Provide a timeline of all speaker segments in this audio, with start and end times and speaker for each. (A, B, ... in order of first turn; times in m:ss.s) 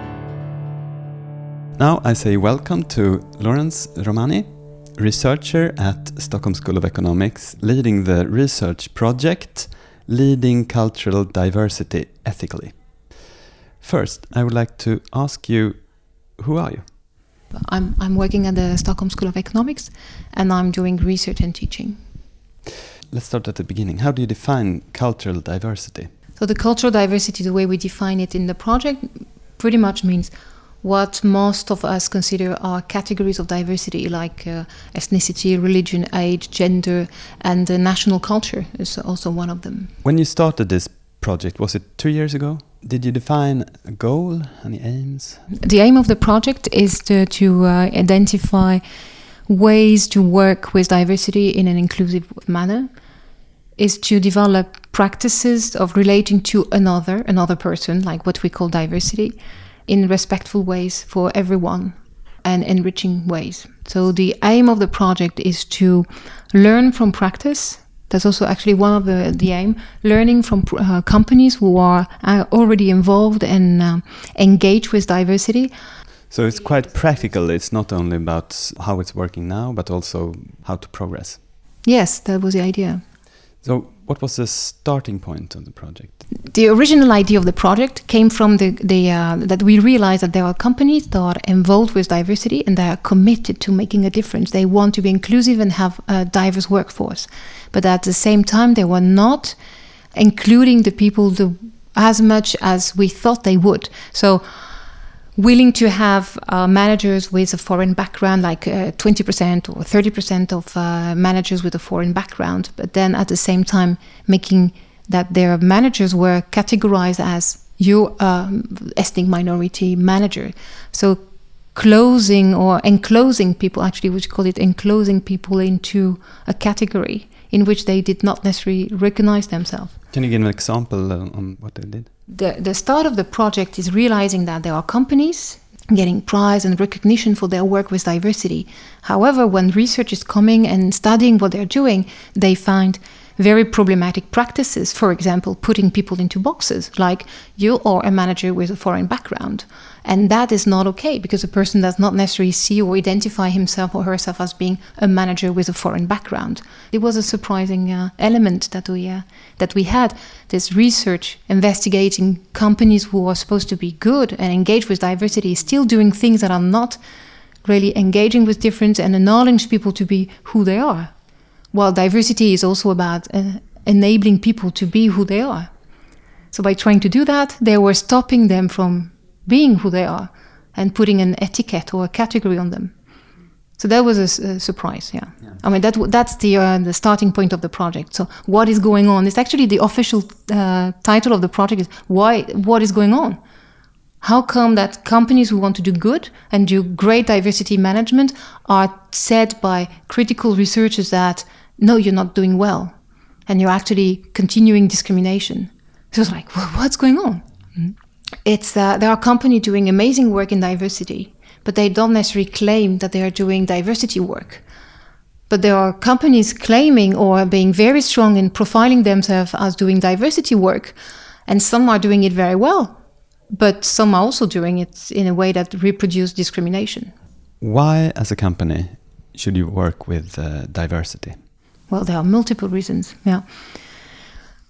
0:01.8-0:12.9 A
0:13.8-0:16.9 A
0:17.5-0:22.0 B
0:23.1-0:26.1 A
0:26.4-0:39.9 B
0:40.0-0:45.4 A
0:45.6-0:48.8 B
0:49.5-0:52.9 B
0:53.8-1:15.7 B
1:16.3-1:21.4 A
1:21.8-1:23.0 B
1:23.6-1:26.2 A
1:26.5-1:39.6 B
1:40.2-1:44.4 B
1:45.4-2:01.2 B
2:01.7-2:10.0 B
2:10.1-2:12.1 A
2:12.3-2:47.0 B
2:47.6-2:51.1 B
2:51.7-2:55.7 B
2:56.5-3:02.9 B
3:03.8-3:13.4 B
3:14.2-3:22.9 B
3:23.5-3:34.6 B
3:35.5-3:43.0 B
3:43.5-3:47.1 B
3:47.6-3:51.4 A
3:51.9-3:53.4 B